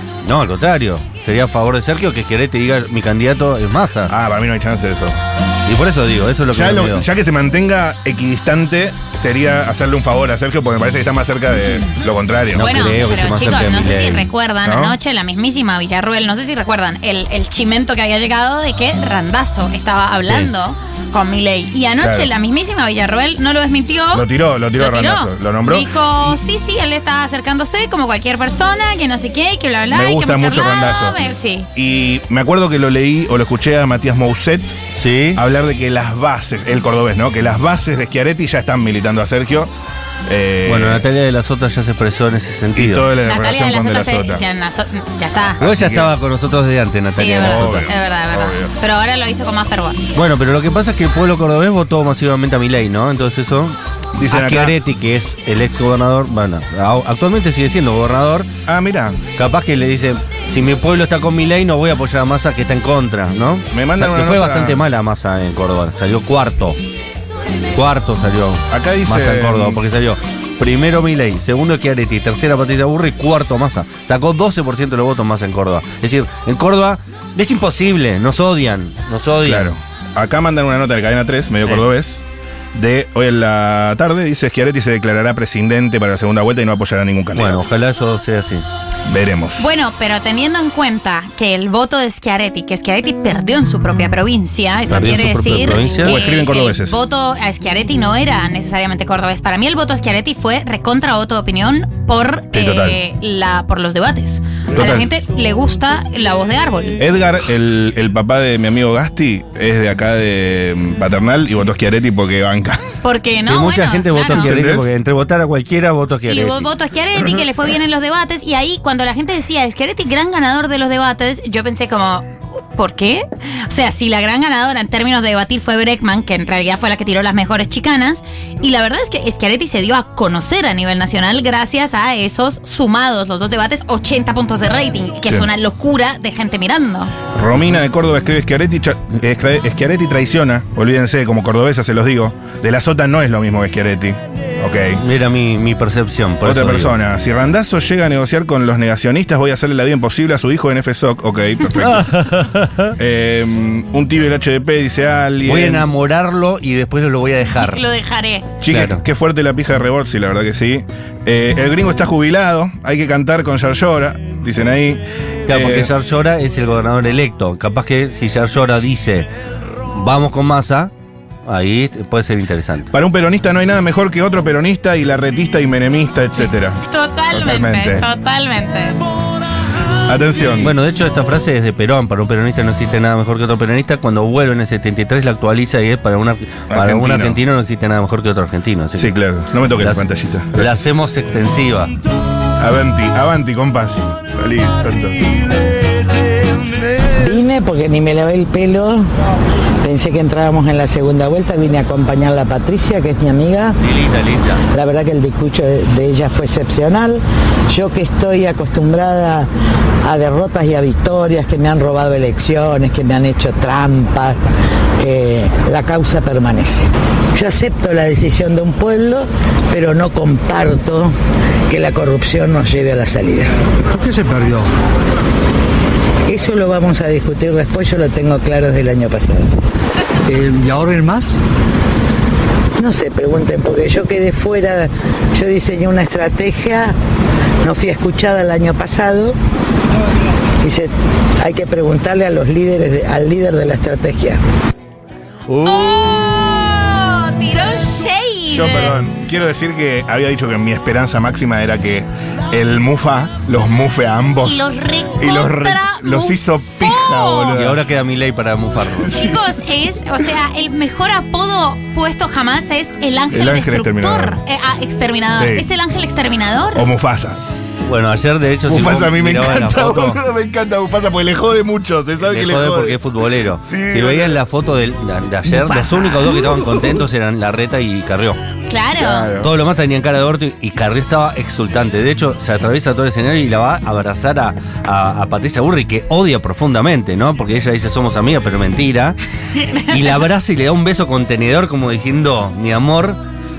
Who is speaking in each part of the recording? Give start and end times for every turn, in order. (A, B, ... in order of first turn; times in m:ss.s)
0:00.2-0:04.1 A
0:04.1-0:05.2 B
0:05.7-0:07.1 A
0:06.5-0:12.8 B
0:12.5-0:14.3 A
0:12.6-0:31.7 C
0:14.6-0:15.0 B
0:20.2-0:20.5 A
0:22.0-0:22.3 B
0:24.1-0:26.4 B
0:29.9-0:31.2 B
0:31.8-0:34.8 B
0:35.0-0:35.4 A
0:35.4-0:39.7 B
0:40.3-0:41.0 B
0:40.7-0:43.1 A
0:42.8-0:44.4 B
0:43.2-0:45.6 C
0:45.6-0:46.1 B
0:45.6-0:47.9 A
0:47.2-0:50.0 C
0:47.3-0:48.7 B
0:50.2-0:53.8 A
0:54.2-0:54.8 B
0:54.3-0:58.5 A
0:58.7-0:59.2 B
0:59.4-1:06.8 A
1:03.7-1:04.8 B
1:07.7-1:19.7 A
1:08.7-1:09.8 B
1:19.4-1:22.2 B
1:22.7-1:27.6 B
1:27.4-1:28.6 A
1:29.1-1:29.7 B
1:29.6-1:47.0 C
1:34.9-1:36.2 A
1:36.0-1:37.0 B
1:42.5-1:43.0 B
1:44.7-1:45.1 B
1:47.0-1:52.9 B
1:53.0-1:54.5 C
1:53.5-1:56.7 A
1:54.3-1:54.9 B
1:56.3-2:17.1 C
2:17.3-2:25.0 B
2:25.0-2:27.0 A
2:26.4-2:32.1 B
2:31.7-2:33.0 A
2:33.0-2:35.9 B
2:35.4-2:37.8 A
2:37.6-2:38.5 C
2:38.6-2:45.9 B
2:38.7-2:39.0 A
2:45.5-2:49.3 A
2:49.9-2:50.9 A
2:51.5-2:52.9 A
2:52.9-2:56.8 B
2:56.9-2:59.0 C
2:57.3-2:58.1 B
3:00.0-3:00.8 B
3:00.6-3:09.1 A
3:06.7-3:07.4 B
3:09.0-3:10.8 B
3:09.8-3:11.9 A
3:12.6-3:15.2 B
3:17.2-3:19.1 D
3:19.8-3:23.8 D
3:23.8-3:24.6 A
3:24.7-3:29.5 D
3:30.0-3:34.4 D
3:35.0-3:41.1 D
3:41.7-3:43.5 D
3:43.9-3:44.7 E
3:46.3-3:49.5 D
3:50.3-3:51.4 E
3:52.8-3:57.0 D
3:57.6-3:59.4 D
4:00.6-4:04.4 D
4:05.6-4:09.0 C
4:05.7-4:06.1 B
4:08.5-4:14.6 B
4:14.4-4:17.6 C
4:15.2-4:17.8 B
4:17.6-4:19.2 A
4:19.0-4:19.5 B
4:19.1-4:26.8 C
4:23.3-4:24.4 B
4:25.3-4:25.7 B
4:26.7-4:27.4 B
4:27.9-4:30.2 A
4:28.7-4:33.0 B
4:32.2-4:38.4 A
4:33.7-4:34.4 B
4:35.5-4:36.6 B
4:38.7-4:39.3 C
4:39.0-4:39.5 B
4:39.4-4:49.2 A
4:49.6-4:50.3 C
4:49.9-4:53.2 A